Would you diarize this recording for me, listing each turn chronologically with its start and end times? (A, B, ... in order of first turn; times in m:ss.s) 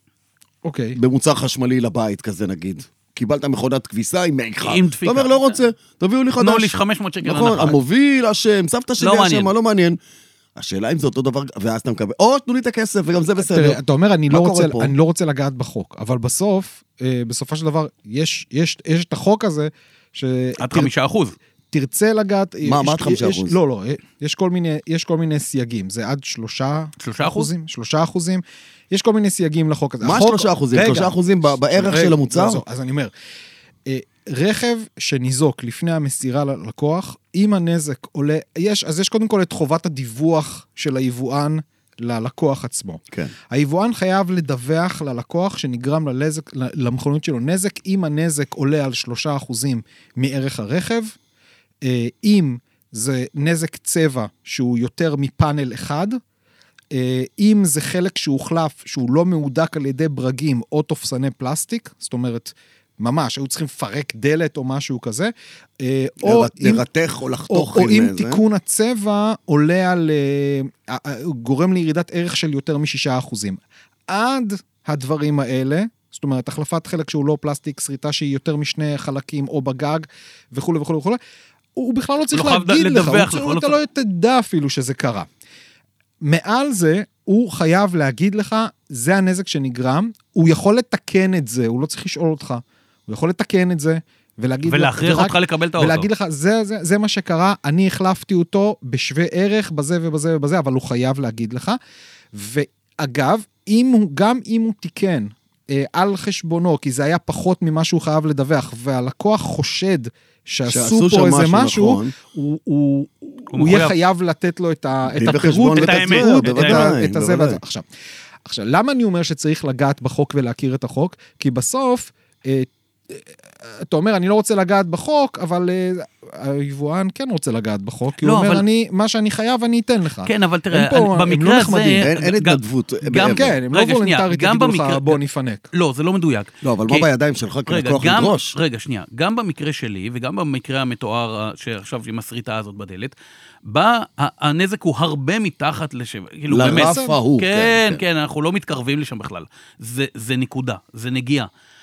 0:00.6-0:01.0 A
0:01.0-0:10.0 B
0:04.6-0:05.6 C
0:06.4-0:07.8 C
0:09.0-0:09.5 C
0:10.6-0:13.8 B
0:13.4-0:20.9 A
0:14.3-0:14.9 B
0:20.6-0:21.4 C
0:21.7-0:31.1 A
0:22.6-0:23.6 B
0:27.0-0:27.5 C
0:30.0-0:32.6 B
0:31.7-0:33.1 A
0:33.9-0:51.2 A
0:51.8-0:56.2 A
0:56.9-1:06.8 A
1:06.2-1:08.4 B
1:07.5-1:21.2 A
1:21.8-1:25.3 A
1:22.3-1:23.8 C
1:26.2-1:41.8 A
1:34.7-1:36.1 C
1:42.3-1:57.8 A
1:50.7-1:52.1 B
1:53.5-1:54.0 C
1:55.1-1:57.6 B
1:55.7-1:56.9 C
1:58.5-2:12.1 A
2:08.2-2:08.6 C
2:10.2-2:15.2 C
2:12.0-2:13.6 B
2:13.1-2:15.7 A
2:15.7-2:17.1 C
2:16.6-2:18.6 B
2:17.7-2:31.5 C
2:26.5-2:28.0 B
2:26.6-2:27.2 A